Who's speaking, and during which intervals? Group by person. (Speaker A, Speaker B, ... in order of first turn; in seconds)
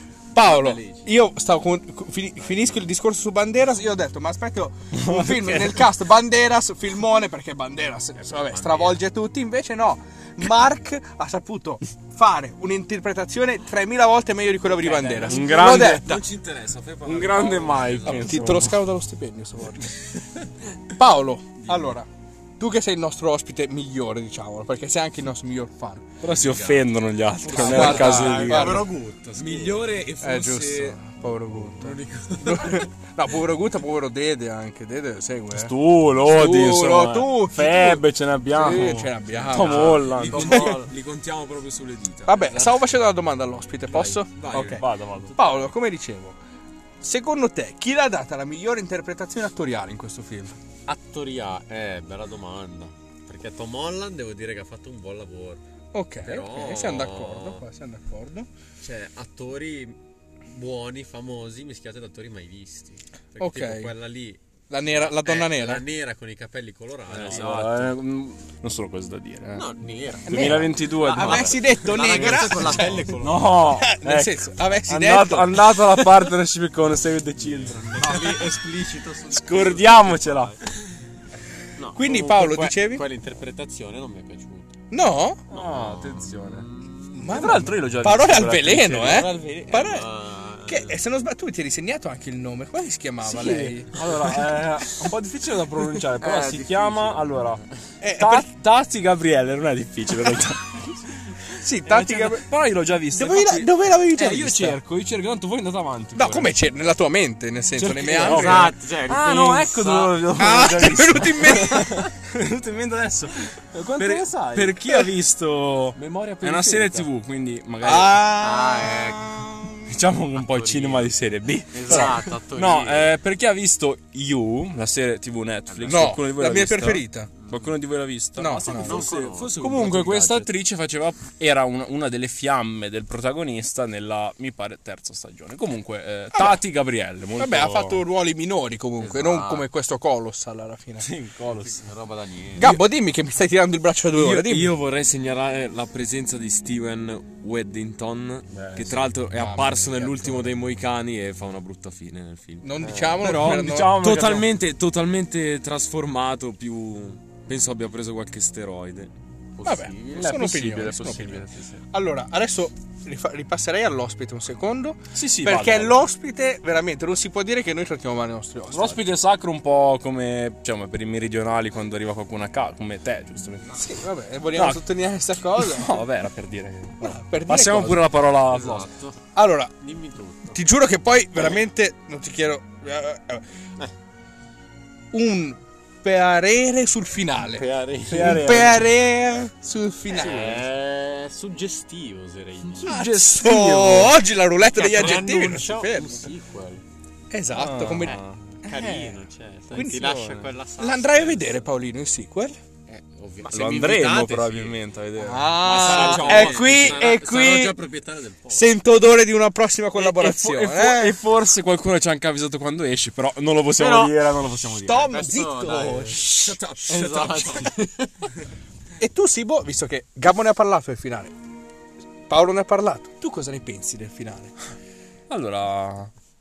Speaker A: 0.3-16.2, 18.1-20.0, 20.9-22.1, 22.6-26.0, 27.5-28.9, 30.2-40.7, 42.2-46.4, 47.0-50.5, 55.9-58.5, 63.4-63.9, 64.7-65.8, 70.2-76.1, 81.9-83.0, 84.9-85.4, 87.1-90.1, 90.6-94.2, 98.0-98.5, 101.5-102.4, 103.1-104.8, 106.1-108.7, 110.3-112.0, 117.8-119.7, 125.9-127.3, 128.3-129.1, 136.3-136.6, 137.4-141.1, 142.6-144.8, 149.3-150.5, 152.6-154.0, 159.6-169.0, 173.7-176.0, 177.0-178.1, 179.3-179.7, 180.5-183.4, 185.1-190.6, 192.8-196.3, 197.3-199.2, 199.7-202.6, 205.2-207.7, 208.5-211.2, 214.8-217.7, 219.0-221.3, 222.3-224.5
Speaker B: 0.4-1.1, 2.4-2.9, 8.2-9.0, 14.9-15.4, 17.2-18.3, 21.6-21.9, 26.2-26.9, 27.4-29.9, 39.6-40.9, 43.9-44.4, 50.9-55.6, 56.2-57.6, 58.8-64.4, 65.0-67.7, 69.5-73.5, 77.9-80.5, 81.8-84.7, 85.6-87.4, 89.0-91.0, 96.2-97.6, 108.2-110.2, 114.2-114.7, 118.4-119.2, 120.3-121.1, 121.7-123.2, 125.7-126.1, 128.7-129.5, 139.0-139.7, 141.6-142.7, 159.6-160.3, 161.3-161.8, 178.5-179.2, 179.8-180.6, 187.5-188.3, 190.1-192.9, 194.7-196.8, 198.0-201.7, 202.9-204.8, 205.6-208.7, 215.0-218.3
Speaker C: 4.9-5.8, 15.2-16.1, 17.0-18.8, 26.2-28.8, 35.5-40.8, 44.5-45.3, 67.1-69.6, 70.3-71.6, 72.6-78.5, 79.3-80.5, 85.5-86.7, 87.3-89.3, 93.2-97.6, 98.1-106.5, 107.8-118.3, 119.8-129.1, 129.6-138.0, 141.0-141.8, 148.5-149.1, 153.2-154.5, 160.1-161.5, 165.1-166.0, 168.7-173.8, 174.5-174.8, 175.6-178.9, 188.1-188.8, 192.8-194.2, 197.5-198.4, 203.4-206.5, 209.9-215.1, 225.3-226.1
Speaker D: 14.8-18.3, 27.5-28.7, 29.3-31.0, 31.6-32.8, 39.5-42.5, 44.3-44.8, 67.1-67.9, 113.9-114.5, 116.0-117.1, 128.4-130.5, 144.1-159.1, 205.7-207.0